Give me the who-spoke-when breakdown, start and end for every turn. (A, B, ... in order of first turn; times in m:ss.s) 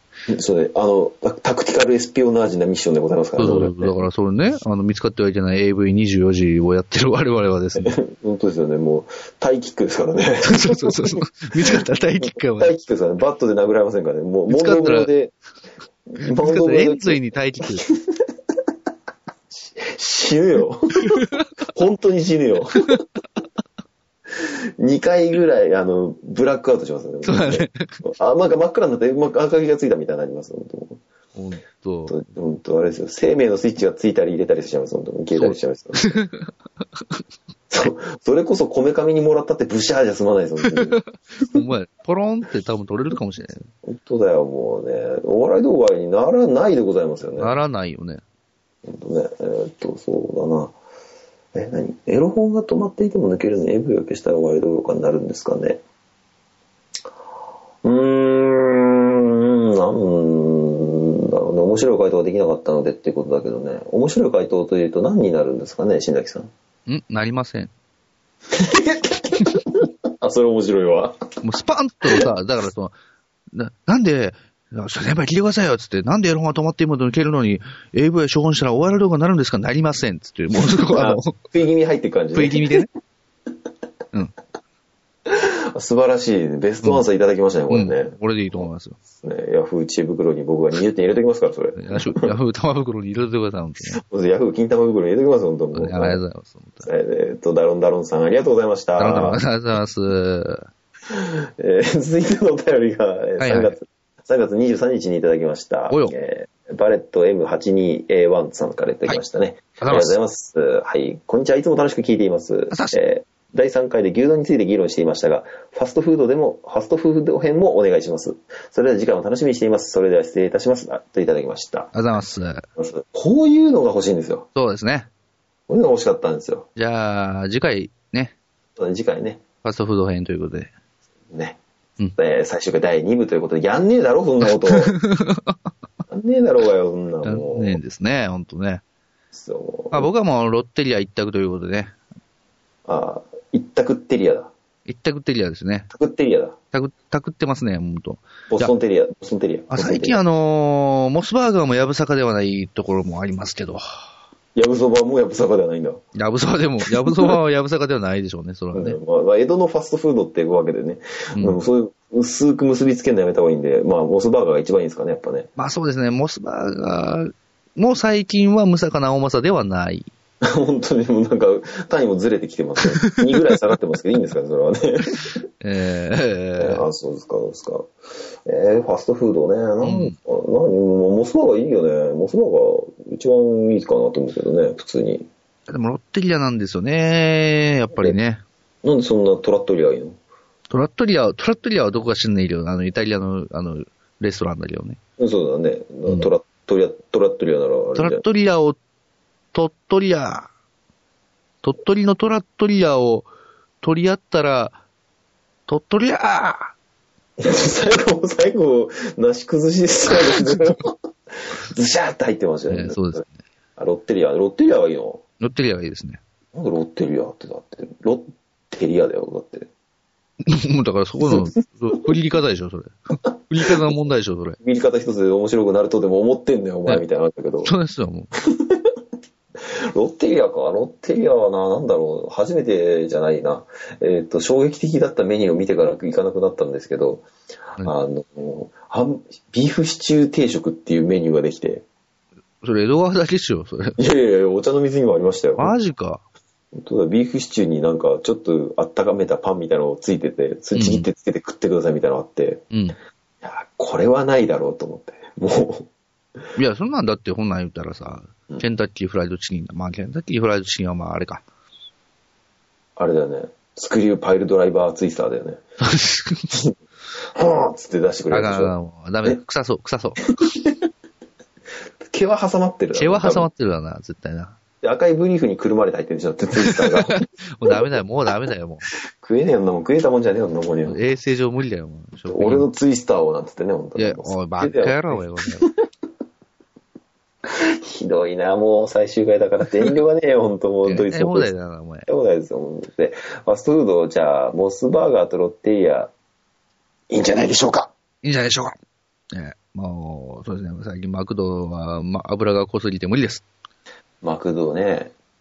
0:00.3-0:04.0 A
0:03.4-0:08.0 B
0:07.8-0:11.7 A
0:10.5-0:12.7 B
0:12.2-0:15.3 A
0:14.5-0:15.1 B
0:16.1-0:17.2 A
0:16.4-0:17.8 B
0:19.5-0:23.0 A
0:21.1-0:21.4 B
0:24.4-0:31.0 A
0:27.2-0:28.0 B
0:31.3-0:32.1 B
0:32.1-0:36.2 A
0:35.3-0:36.5 B
0:37.7-0:41.0 A
0:41.5-0:43.7 B
0:43.8-0:47.5 A
0:47.4-0:48.2 B
0:48.8-0:50.7 A
0:51.5-0:55.8 A
0:57.8-1:06.5 A
1:06.9-1:07.7 B
1:08.5-1:11.2 A
1:11.4-1:12.9 B
1:13.5-1:21.3 B
1:20.9-1:22.8 A
1:22.3-1:22.9 B
1:25.3-1:28.6 A
1:27.7-1:29.0 B
1:29.2-1:32.3 A
1:31.8-1:34.0 B
1:33.9-1:36.2 A
1:35.7-1:36.9 B
1:36.8-1:39.4 A
1:39.0-1:40.7 B
1:41.1-2:01.9 A
1:43.4-1:43.7 B
1:49.8-1:50.2 B
1:52.7-1:53.0 B
2:01.9-2:02.6 B
2:02.8-2:04.5 A
2:04.5-2:05.1 B
2:05.7-2:06.7 A
2:06.8-2:08.3 B
2:08.8-2:09.4 A
2:09.6-2:10.7 B
2:11.3-2:11.6 A
2:12.2-2:15.0 A
2:14.4-2:15.6 B
2:16.1-2:17.8 A
2:17.2-2:18.8 B
2:19.3-2:20.1 A
2:19.9-2:21.9 B
2:22.8-2:24.5 A
2:24.8-2:25.9 B
2:25.9-2:26.6 A
2:26.7-2:28.7 B
2:28.5-2:30.2 A
2:29.7-2:33.8 B
2:34.5-2:36.0 A
2:36.2-2:39.0 B
2:38.7-2:45.5 A
2:41.3-2:41.6 B
2:45.6-2:50.1 B
2:50.4-2:55.4 A
2:55.6-2:56.8 B
2:56.6-2:57.9 A
2:58.4-3:05.3 A
2:59.8-3:00.1 B
3:05.7-3:08.4 B
3:08.8-3:10.2 A
3:10.7-3:15.0 B
3:15.2-3:18.2 A
3:17.9-3:18.8 B
3:19.5-3:20.5 B
3:21.6-3:23.3 B
3:23.8-3:24.8 B
3:25.7-3:26.7 B
3:27.4-3:33.2 A
3:32.7-3:33.3 B
3:33.8-3:35.2 A
3:35.4-3:36.2 B
3:36.5-3:39.7 A
3:40.4-3:42.9 B
3:41.2-3:41.6 A
3:43.5-3:44.6 B
3:44.6-3:47.7 A
3:47.6-3:48.3 B
3:48.4-3:48.9 A
3:49.8-3:57.2 A
3:57.8-4:01.8 A
4:02.6-4:04.0 B
4:04.0-4:05.7 A
4:05.6-4:06.2 B
4:06.7-4:12.6 A
4:10.7-4:11.1 B
4:13.4-4:15.9 A
4:16.6-4:21.4 B
4:23.0-4:25.6 A
4:25.8-4:26.5 B
4:27.3-4:28.7 A
4:28.3-4:30.3 B
4:32.1-4:33.5 A
4:32.9-4:34.6 B
4:34.8-4:37.8 A
4:36.6-4:38.8 B
4:39.2-4:41.0 A
4:40.9-4:42.7 B
4:42.3-4:45.7 A
4:44.0-4:45.7 B
4:47.5-4:51.5 A
4:50.8-4:52.1 B
4:52.0-4:56.1 A
4:57.1-4:57.9 A
4:58.2-4:58.8 B
4:59.3-5:03.4 B
5:04.2-5:05.1 A